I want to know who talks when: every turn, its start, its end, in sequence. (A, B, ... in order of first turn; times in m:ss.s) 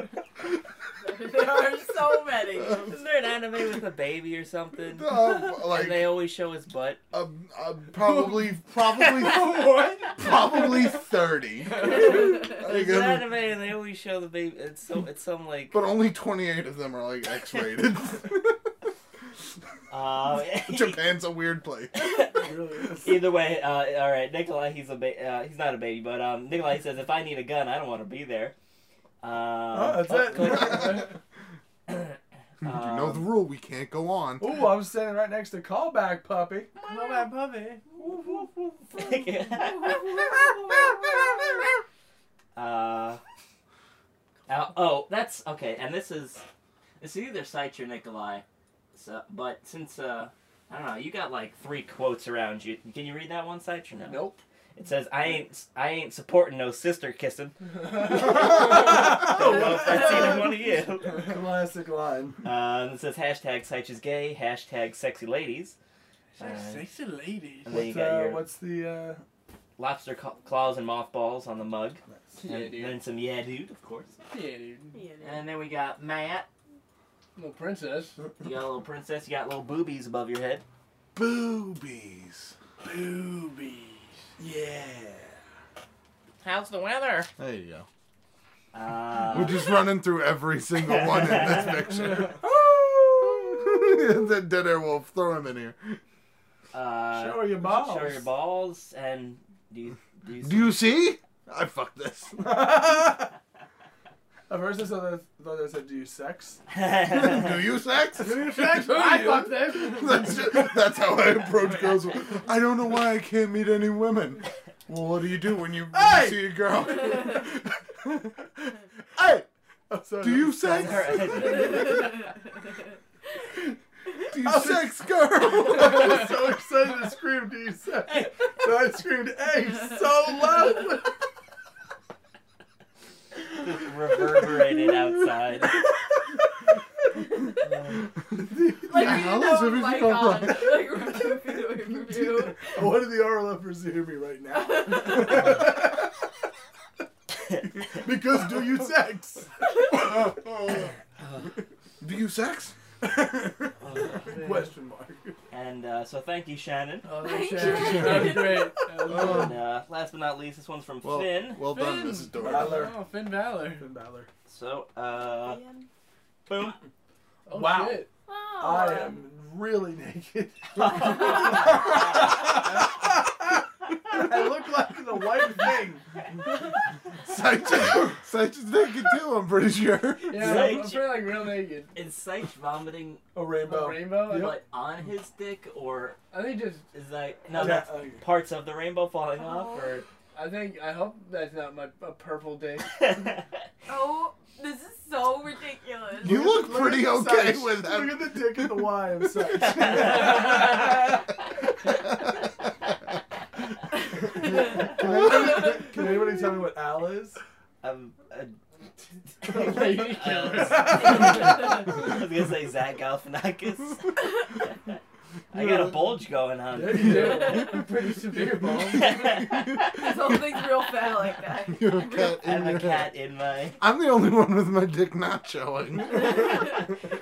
0:01.0-0:03.0 A
0:02.7-0:07.0 B
0:04.8-0:06.2 C
0:07.1-0:13.3 C
0:09.2-0:10.1 D
0:12.0-0:12.5 A
0:12.1-0:15.8 B
0:15.7-0:18.7 C
0:19.9-0:21.1 B
0:20.6-0:22.2 C
0:21.9-0:28.6 B
0:22.3-0:23.3 E
0:29.2-0:31.1 B
0:29.7-0:31.1 E
0:30.6-0:31.0 D
0:31.9-0:33.3 B
0:32.6-0:34.6 C
0:34.4-0:36.7 E
0:36.8-0:37.3 B
0:36.8-0:37.9 D
0:38.0-0:38.4 E
0:38.0-0:38.3 B
0:38.9-0:40.4 B
0:39.9-0:40.5 A
0:42.6-0:43.2 B
0:44.5-0:46.4 B
0:47.0-1:01.2 B
0:54.1-0:54.4 D
0:58.1-0:59.4 D
0:58.2-1:00.4 E
1:01.1-1:02.4 E
1:02.4-1:05.8 B
1:06.4-1:07.7 D
1:06.4-1:06.9 B
1:07.6-1:08.5 B
1:07.7-1:09.2 E
1:09.8-1:14.2 B
1:12.1-1:12.4 E
1:12.4-1:13.0 D
1:14.3-1:15.0 D
1:14.9-1:15.4 A
1:15.2-1:16.5 B
1:17.4-1:18.2 D
1:18.4-1:20.6 B
1:21.1-1:22.6 C
1:22.8-1:24.2 D
1:24.4-1:25.4 E
1:26.4-1:27.3 B
1:27.4-1:27.9 C
1:28.7-1:29.7 B
1:29.3-1:36.0 C
1:30.9-1:31.7 B
1:36.7-1:40.8 B
1:37.1-1:38.3 E
1:40.4-1:42.6 C
1:42.4-1:43.3 E
1:44.5-1:46.6 E
1:46.7-1:47.6 B
1:47.0-1:48.8 C
1:48.2-1:50.3 E
1:48.4-1:50.4 D
1:49.7-1:59.4 C
1:55.9-1:56.6 E
1:59.9-2:01.8 E
2:00.2-2:01.7 C
2:00.7-2:02.1 B
2:01.5-2:02.3 A
2:04.3-2:06.3 C
2:04.4-2:05.0 E
2:05.4-2:11.2 E
2:13.5-2:15.8 B
2:18.4-2:19.5 E
2:18.9-2:23.0 A
2:18.9-2:20.9 C
2:22.1-2:26.1 E
2:24.5-2:25.6 A
2:27.8-2:30.8 E
2:30.0-2:30.9 C
2:31.2-2:31.5 B
2:32.0-2:32.7 C
2:33.0-2:35.4 E
2:33.8-2:34.3 B
2:34.2-2:34.7 D
2:35.5-2:37.1 B
2:37.0-2:39.6 D
2:37.2-2:38.7 A
2:39.1-2:41.6 B
2:39.1-2:39.5 C
2:41.0-2:42.9 C
2:41.7-2:43.9 D
2:42.4-2:43.0 E
2:43.8-2:44.3 E
2:44.5-2:45.6 B
2:45.4-2:45.9 A
2:46.5-2:46.8 B
2:47.5-2:48.1 E
2:47.5-2:48.1 D
2:48.3-2:49.2 A
2:48.6-2:53.6 E
2:50.8-2:52.5 B
2:51.0-2:51.6 A
2:52.5-2:52.9 D
2:54.1-2:56.2 E
2:57.2-3:00.7 C
3:00.3-3:01.9 D
3:00.3-3:01.4 B
3:01.9-3:03.2 B
3:03.3-3:04.6 E
3:03.6-3:04.6 D
3:04.3-3:06.2 B
3:06.3-3:06.9 D
3:06.9-3:10.1 B
3:07.5-3:08.2 E
3:09.4-3:10.0 A
3:10.3-3:13.0 D
3:12.9-3:13.4 B
3:13.9-3:16.4 A
3:16.2-3:21.0 E
3:16.2-3:19.9 C
3:19.9-3:20.4 B
3:24.3-3:27.4 E
3:24.5-3:25.8 A
3:27.8-3:28.6 B
3:29.4-3:34.4 B
3:29.4-3:31.4 D
3:30.6-3:31.5 E
3:35.5-3:37.5 B
3:35.6-3:35.8 C
3:36.7-3:39.0 E
3:36.9-3:39.4 D
3:39.0-3:40.0 B
3:39.2-3:40.3 C
3:39.8-3:42.4 A
3:41.7-3:43.1 C
3:42.4-3:43.8 B
3:43.8-3:46.7 C
3:46.3-3:46.6 A